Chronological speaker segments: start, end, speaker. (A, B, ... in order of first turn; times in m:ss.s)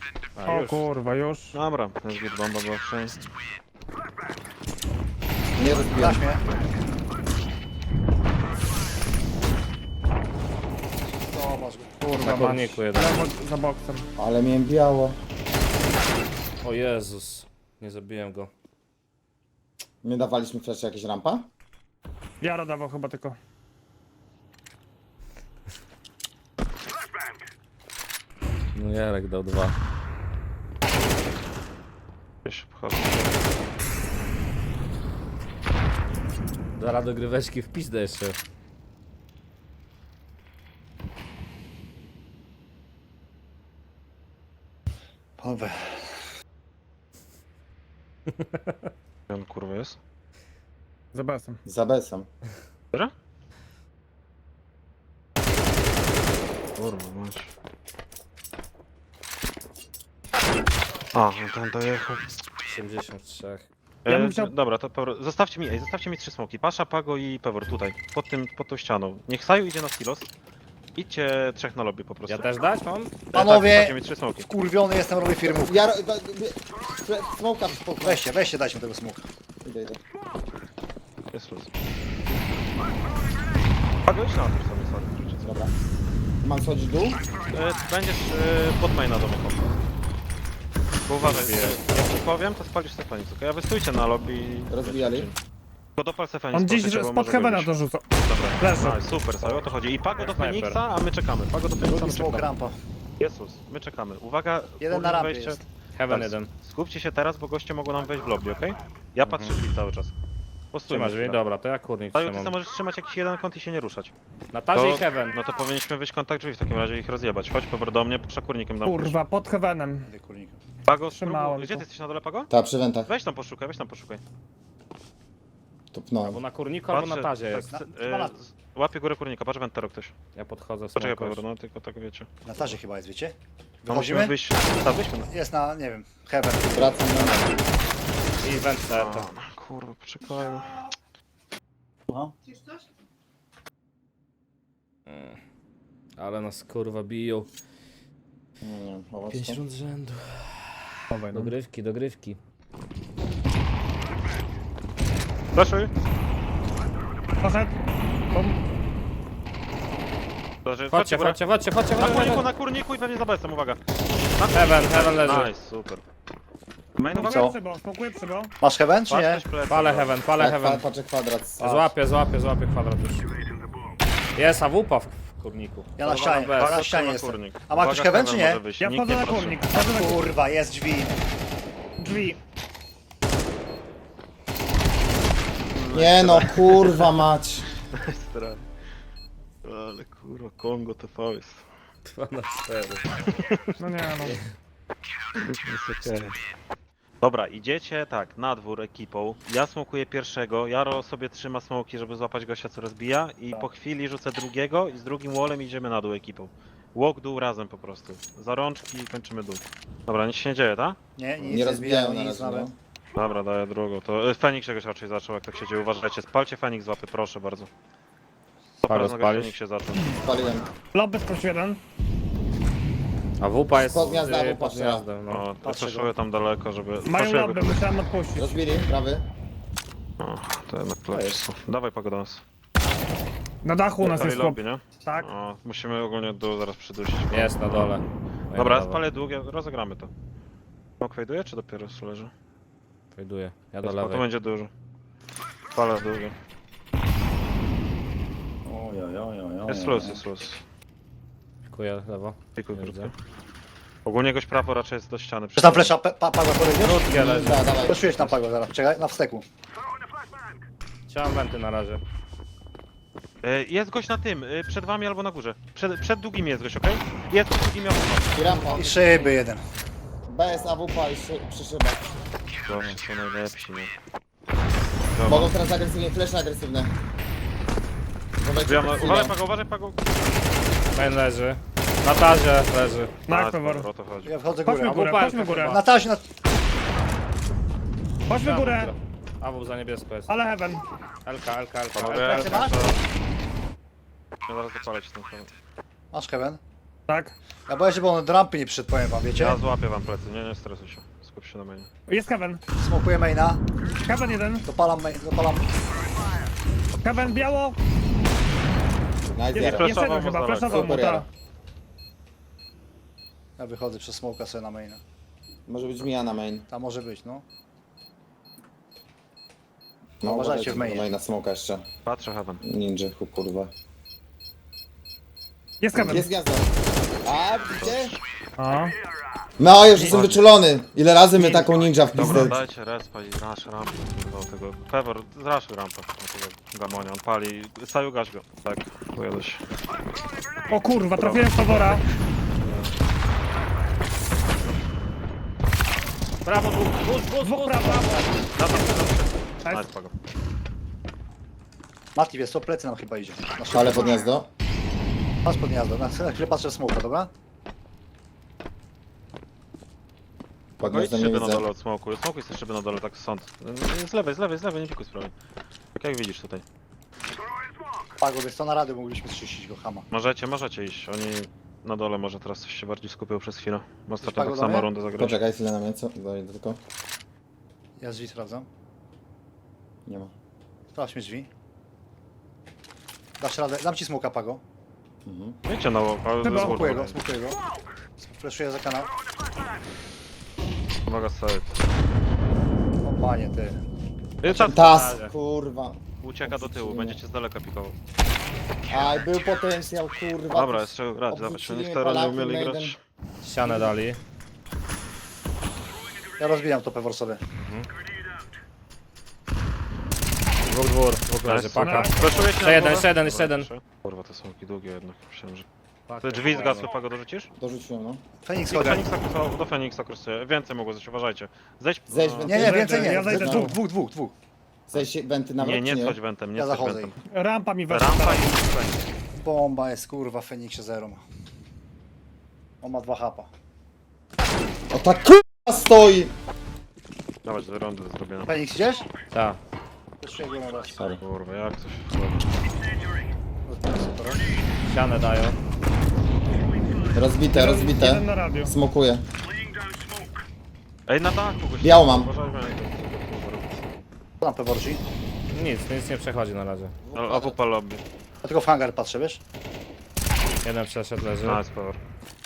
0:00.4-0:00.9 A
0:00.4-0:01.6 B
0:01.5-0:03.2 C
0:05.6-0:06.2 D
0:05.8-0:06.4 E
0:11.2-0:12.1 E
0:12.0-0:14.1 B
0:12.2-0:13.2 A
0:14.2-0:15.2 D
0:16.6-0:18.5 A
0:20.0-0:21.5 D
0:22.4-0:23.4 B
0:28.7-0:29.8 A
0:32.4-0:33.4 C
0:36.8-0:38.4 A
0:45.4-0:46.2 E
0:48.3-0:48.9 A
0:49.3-0:50.0 C
0:51.1-0:51.6 B
0:51.6-0:52.3 D
0:56.8-0:57.5 C
1:01.1-1:02.3 C
1:02.7-1:03.7 A
1:04.0-1:10.3 C
1:04.1-1:04.5 B
1:11.0-1:12.5 C
1:12.3-1:13.2 A
1:13.3-1:14.5 C
1:13.3-1:15.8 E
1:15.4-1:18.2 D
1:18.0-1:19.2 E
1:19.6-1:20.0 D
1:21.3-1:21.7 C
1:24.1-1:25.6 C
1:25.4-1:25.7 D
1:26.4-1:27.2 D
1:27.5-1:29.7 C
1:31.1-1:35.4 C
1:31.2-1:32.0 A
1:34.7-1:35.3 D
1:36.0-1:42.5 C
1:36.5-1:38.1 B
1:38.6-1:39.1 B
1:40.2-1:40.8 A
1:41.8-1:42.8 E
1:43.2-1:50.1 C
1:44.8-1:45.7 E
1:46.0-1:46.5 A
1:49.3-1:49.6 A
1:50.7-1:51.4 C
1:50.9-1:52.5 A
1:52.1-1:54.1 C
1:54.5-1:55.4 A
1:54.7-1:59.2 C
1:58.8-2:00.1 B
2:00.1-2:00.6 E
2:00.9-2:02.5 C
2:01.2-2:01.8 B
2:02.5-2:03.1 D
2:03.1-2:04.2 C
2:05.9-2:06.4 D
2:06.2-2:07.8 A
2:06.9-2:10.1 C
2:07.7-2:08.4 E
2:10.4-2:11.4 A
2:11.0-2:12.3 C
2:12.4-2:14.4 E
2:13.9-2:15.3 C
2:15.3-2:17.4 E
2:16.7-2:17.5 D
2:18.4-2:19.3 A
2:18.9-2:20.8 C
2:22.1-2:22.4 E
2:25.1-2:25.4 A
2:26.2-2:27.5 A
2:28.6-2:29.6 D
2:29.3-2:32.4 A
2:31.1-2:31.5 B
2:35.5-2:35.9 C
2:37.4-2:37.7 B
2:38.3-2:38.6 B
2:40.6-2:41.4 C
2:40.9-2:42.4 A
2:42.0-2:43.8 C
2:44.4-2:46.0 C
2:44.5-2:45.5 A
2:47.0-2:47.5 C
2:47.1-2:48.5 B
2:47.3-2:47.6 E
2:48.6-2:49.5 E
2:49.1-2:50.1 C
2:49.7-2:50.8 A
2:50.4-2:51.8 D
2:51.6-2:53.4 A
2:54.4-2:56.8 A
2:56.0-2:58.6 E
2:56.6-2:59.6 C
2:58.8-3:00.2 B
2:59.8-3:01.1 E
3:02.0-3:02.4 B
3:05.7-3:07.2 C
3:05.9-3:07.7 D
3:07.9-3:08.7 C
3:09.6-3:11.6 C
3:12.1-3:13.3 A
3:13.8-3:14.4 B
3:14.2-3:14.5 A
3:15.4-3:16.4 C
3:17.2-3:31.0 C
3:31.2-3:32.7 E
3:31.4-3:32.8 D
3:33.2-3:37.7 C
3:38.8-3:40.2 C
3:38.9-3:39.6 A
3:40.0-3:40.7 D
3:40.9-3:41.8 B
3:43.4-3:45.5 A
3:43.7-3:45.1 D
3:45.3-3:47.8 C
3:45.6-3:46.1 E
3:47.0-3:48.6 B
3:48.4-3:49.3 D
3:50.2-3:52.4 C
3:51.1-3:51.4 A
3:53.6-3:55.3 B
3:54.0-3:57.9 C
3:54.0-3:54.4 A
3:57.3-3:59.0 A
3:58.6-4:00.1 C
4:01.0-4:02.3 C
4:03.2-4:04.3 A
4:03.8-4:04.7 C
4:05.8-4:06.4 C
4:08.6-4:10.2 E
4:09.7-4:10.6 C
4:11.7-4:13.1 A
4:12.6-4:13.1 C
4:14.0-4:16.0 C
4:15.6-4:17.1 E
4:16.8-4:17.8 A
4:17.1-4:18.3 D
4:17.8-4:19.4 E
4:21.1-4:22.0 A
4:23.4-4:29.0 C
4:28.4-4:29.0 D
4:28.7-4:29.6 E
4:29.0-4:29.4 A
4:30.3-4:32.3 D
4:32.7-4:33.9 C
4:32.7-4:33.0 A
4:35.1-4:35.6 C
4:35.2-4:36.9 D
4:38.4-4:39.4 D
4:38.5-4:40.0 C
4:40.9-4:43.2 A
4:43.3-4:43.9 B
4:43.3-4:44.3 C
4:44.2-4:46.3 E
4:44.6-4:45.8 B
4:44.8-4:45.8 A
4:48.3-4:48.9 B
4:48.4-4:50.3 A
4:50.3-4:50.9 B
4:51.2-4:52.7 A
4:51.9-4:53.0 C
4:52.1-4:52.9 E
4:54.5-4:55.5 C
4:56.1-4:56.6 E
4:57.1-4:57.4 B
4:57.7-4:59.6 E
4:59.4-5:01.9 C
5:02.1-5:02.6 B
5:02.8-5:03.6 E
5:04.0-5:04.7 B
5:04.6-5:05.7 E
5:06.9-5:07.5 C
5:07.0-5:07.8 B
5:09.4-5:11.3 D
5:09.6-5:11.0 C
5:09.6-5:11.3 B
5:13.6-5:15.0 E
5:15.7-5:16.7 D
5:16.7-5:17.4 E
5:20.2-5:21.9 D
5:20.2-5:21.1 E
5:22.0-5:22.6 C
5:22.6-5:23.7 D
5:25.8-5:26.3 B
5:25.9-5:28.2 D
5:27.7-5:28.2 C
5:28.6-5:29.0 B
5:29.6-5:32.6 D
5:30.1-5:30.5 C
5:31.4-5:32.6 B
5:32.2-5:39.6 C
5:40.7-5:42.0 B
5:41.2-5:42.0 C
5:42.6-5:42.9 C
5:46.4-5:48.6 A
5:47.4-5:49.1 B
5:48.5-5:50.1 C
5:52.1-5:54.3 E
5:53.7-5:54.5 D
5:55.4-5:57.3 E
6:00.8-6:01.7 D
6:00.8-6:05.3 C
6:06.0-6:06.6 C
6:08.2-6:10.1 E
6:10.1-6:15.4 C
6:14.2-6:14.9 E
6:15.2-6:16.8 D
6:18.0-6:18.7 E
6:20.1-6:20.3 D
6:20.9-6:21.5 E
6:23.4-6:24.6 E
6:25.3-6:25.6 D
6:25.7-6:27.2 C
6:26.4-6:27.0 B
6:26.4-6:27.6 E
6:28.2-6:29.1 E
6:31.1-6:31.8 C
6:33.0-6:33.8 E
6:34.4-6:35.1 C
6:34.5-6:37.2 D
6:34.8-6:35.3 A
6:36.2-6:38.0 C
6:38.9-6:43.0 D
6:40.5-6:43.0 C
6:43.4-6:44.2 A
6:46.4-6:47.4 E
6:47.6-6:47.9 A
6:50.7-6:53.7 A
6:51.4-6:55.7 C
6:51.8-6:52.5 B
6:56.1-6:56.9 A
6:56.2-6:57.5 C
6:57.6-6:58.2 D
6:58.4-6:59.1 E
6:58.7-7:02.8 C
7:02.1-7:03.8 D
7:02.4-7:04.3 E
7:02.5-7:03.8 B
7:04.9-7:06.2 D
7:05.6-7:07.2 C
7:06.6-7:07.2 E
7:07.2-7:08.6 B
7:07.9-7:09.0 C
7:09.4-7:11.2 E
7:12.8-7:13.5 E
7:14.9-7:16.3 D
7:17.4-7:18.6 C
7:18.5-7:19.1 E
7:19.3-7:19.6 A
7:20.2-7:21.0 E
7:21.0-7:21.2 D
7:21.2-7:22.1 C
7:22.1-7:22.4 A
7:23.6-7:24.4 E
7:24.9-7:25.6 A
7:27.1-7:29.2 D
7:27.5-7:28.7 B
7:31.1-7:33.8 C
7:31.8-7:32.3 D
7:34.4-7:35.0 E
7:35.5-7:36.9 A
7:37.0-7:37.6 D
7:37.1-7:38.0 C
7:38.4-7:39.4 E
7:40.6-7:41.6 A
7:41.4-7:42.0 C